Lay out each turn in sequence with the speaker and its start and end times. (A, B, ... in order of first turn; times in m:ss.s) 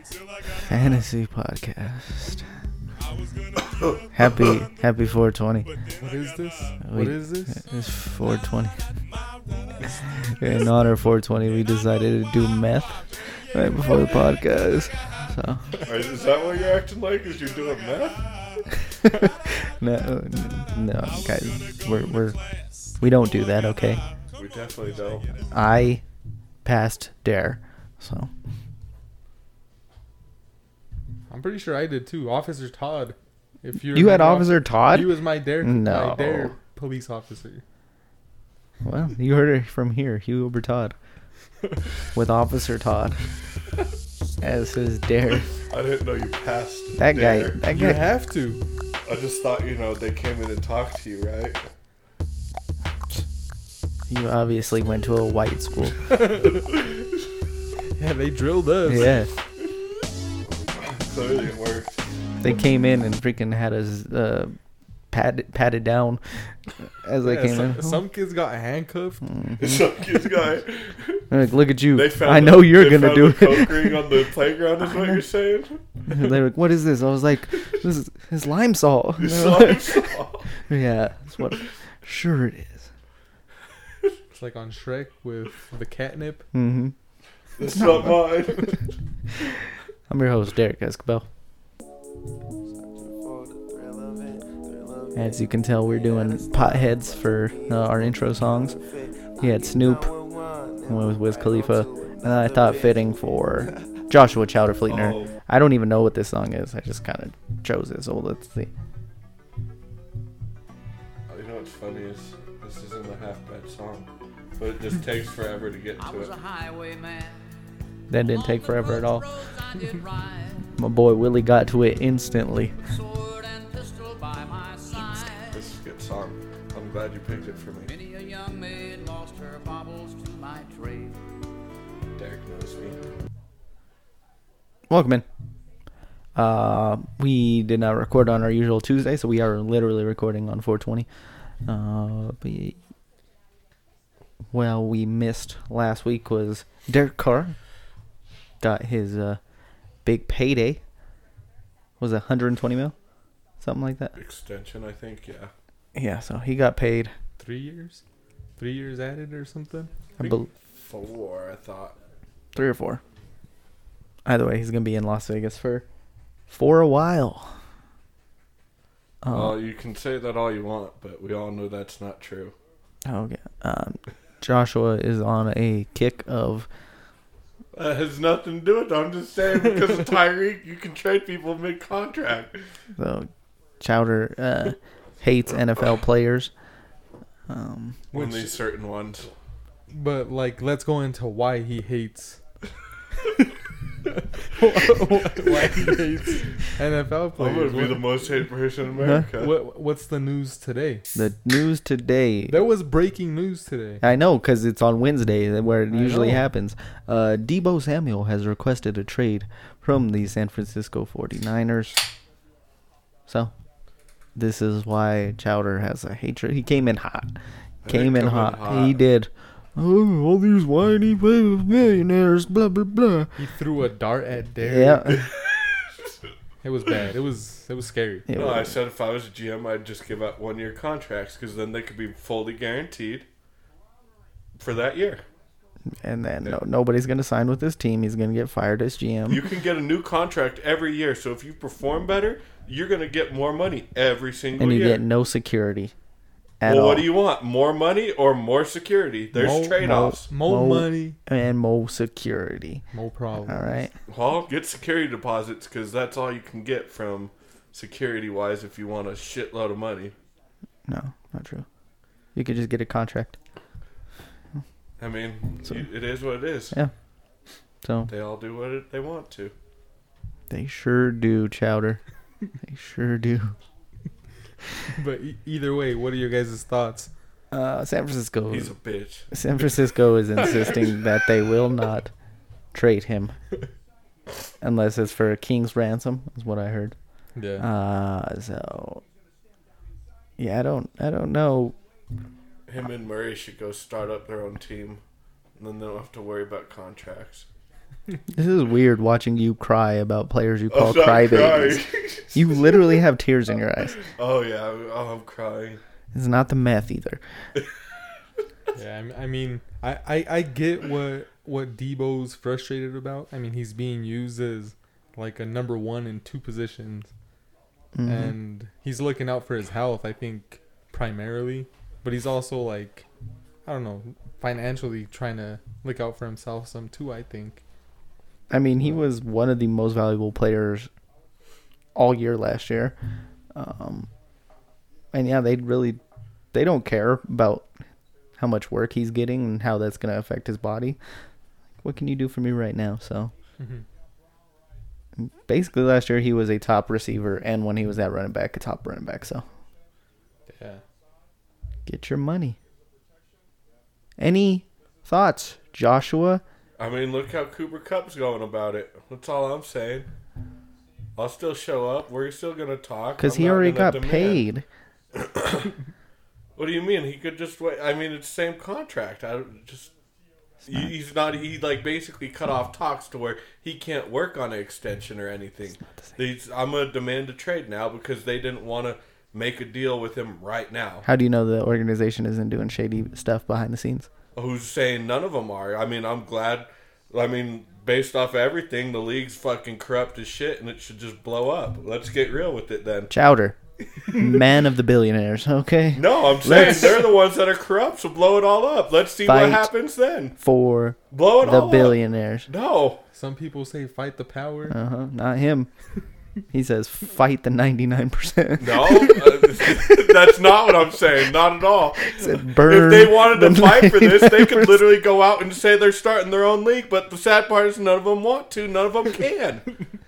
0:00.5-0:02.5 A
0:04.1-0:05.7 A
0:05.9-0:07.6 B
0:06.8-0:08.8 A
0:10.2-0:15.7 A
0:15.8-0:18.3 C
0:19.0-0:22.4 A
0:23.0-0:24.0 A
0:24.3-0:25.3 C
0:25.5-0:26.0 A
0:26.6-0:28.3 A
0:31.3-0:37.6 B
0:33.9-0:36.6 A
0:38.8-0:41.0 A
0:42.1-0:43.2 A
0:44.4-0:45.5 A
0:45.7-0:47.6 C
0:47.0-0:48.1 A
0:47.7-0:48.6 B
0:49.0-0:51.6 C
0:54.1-0:56.0 A
0:56.1-0:56.6 B
0:58.0-0:59.2 B
0:58.8-0:59.3 A
1:00.7-1:02.0 C
1:02.4-1:04.6 A
1:05.1-1:08.0 A
1:07.2-1:09.2 B
1:09.2-1:09.9 A
1:09.6-1:11.3 C
1:11.3-1:14.2 A
1:11.9-1:16.2 C
1:14.8-1:15.2 A
1:16.1-1:20.1 A
1:19.2-1:20.6 C
1:20.6-1:22.9 A
1:24.4-1:26.5 B
1:26.5-1:27.0 A
1:27.6-1:28.8 C
1:27.7-1:28.4 A
1:30.1-1:31.3 A
1:35.1-1:38.8 A
1:39.4-1:40.2 A
1:40.8-1:48.7 A
1:44.9-1:45.3 C
1:51.3-1:56.3 C
1:56.0-1:57.5 D
1:58.1-1:59.3 A
1:58.2-2:00.6 D
2:00.8-2:02.8 A
2:02.9-2:05.6 D
2:05.3-2:07.9 C
2:07.8-2:11.2 D
2:12.2-2:13.0 C
2:14.9-2:15.2 A
2:16.4-2:21.1 A
2:21.6-2:22.8 A
2:24.5-2:27.6 A
2:28.6-2:29.4 A
2:30.0-2:30.8 A
2:32.0-2:33.0 A
2:33.6-2:34.2 A
2:34.2-2:35.5 C
2:36.0-2:37.1 A
2:37.4-2:38.0 B
2:38.6-2:39.9 B
2:40.2-2:40.5 A
2:40.2-2:42.0 C
2:42.5-2:43.0 A
2:44.2-2:45.8 A
2:46.5-2:47.5 A
2:49.2-2:49.6 A
2:49.3-2:52.6 C
2:53.0-2:56.7 A
2:57.7-3:02.6 C
3:03.0-3:03.3 A
3:03.8-3:06.5 A
3:07.5-3:08.1 A
3:08.1-3:08.5 B
3:08.1-3:09.3 C
3:09.9-3:12.4 B
3:14.1-3:18.1 B
3:17.4-3:19.6 C
3:19.3-3:21.1 B
3:21.1-3:22.6 A
3:22.5-3:24.0 B
3:24.0-3:32.0 A
3:25.9-3:26.5 B
3:34.4-3:43.4 A
3:37.8-3:39.0 C
3:43.4-3:45.2 B
3:44.6-3:45.3 A
3:46.6-3:48.3 B
3:48.3-3:48.8 A
3:48.4-3:53.3 C
3:54.6-3:55.2 C
3:55.9-3:59.4 A
3:59.3-4:05.0 C
4:04.6-4:05.9 A
4:06.6-4:07.1 A
4:06.6-4:10.3 C
4:09.3-4:11.2 B
4:09.8-4:12.8 A
4:12.9-4:13.8 B
4:13.5-4:13.9 A
4:14.1-4:20.1 C
4:20.9-4:21.7 A
4:22.4-4:23.4 A
4:25.0-4:26.8 C
4:27.8-4:28.1 A
4:28.1-4:29.5 C
4:30.5-4:32.0 A
4:32.6-4:33.6 A
4:34.9-4:37.1 B
4:37.5-4:38.8 A
4:38.5-4:39.3 C
4:39.3-4:42.1 A
4:42.7-4:43.4 A
4:44.6-4:47.0 A
4:47.4-4:47.7 B
4:47.6-4:49.0 A
4:50.4-4:51.8 A
4:52.7-4:55.0 C
4:55.6-4:57.5 C
4:58.3-5:01.8 A
5:00.7-5:03.0 C
5:02.3-5:04.0 A
5:04.0-5:05.8 C
5:06.1-5:07.2 A
5:08.8-5:17.1 B
5:18.0-5:18.4 A
5:18.1-5:23.1 B
5:23.7-5:27.6 B
5:28.5-5:30.9 A
5:32.0-5:33.0 A
5:33.5-5:34.1 A
5:35.1-5:36.0 A
5:36.5-5:37.7 A
5:38.4-5:41.0 A
5:41.8-5:43.3 A
5:43.6-5:43.8 B
5:45.2-5:49.4 A
5:50.5-5:50.8 B
5:51.9-5:52.6 A
5:54.2-5:56.4 A
5:56.8-6:00.1 C
6:01.2-6:04.4 C
6:03.2-6:04.6 A
6:05.2-6:05.7 C
6:06.6-6:09.9 C
6:10.6-6:21.1 C
6:21.0-6:24.1 A
6:24.4-6:33.1 C
6:33.1-6:33.6 A
6:34.1-6:37.1 A
6:35.9-6:40.4 C
6:39.3-6:39.7 A
6:40.4-6:42.5 A
6:41.1-6:43.0 C
6:43.1-6:44.8 B
6:44.7-6:45.7 A
6:46.5-6:50.1 A
6:48.6-6:59.7 C
6:52.1-6:54.9 A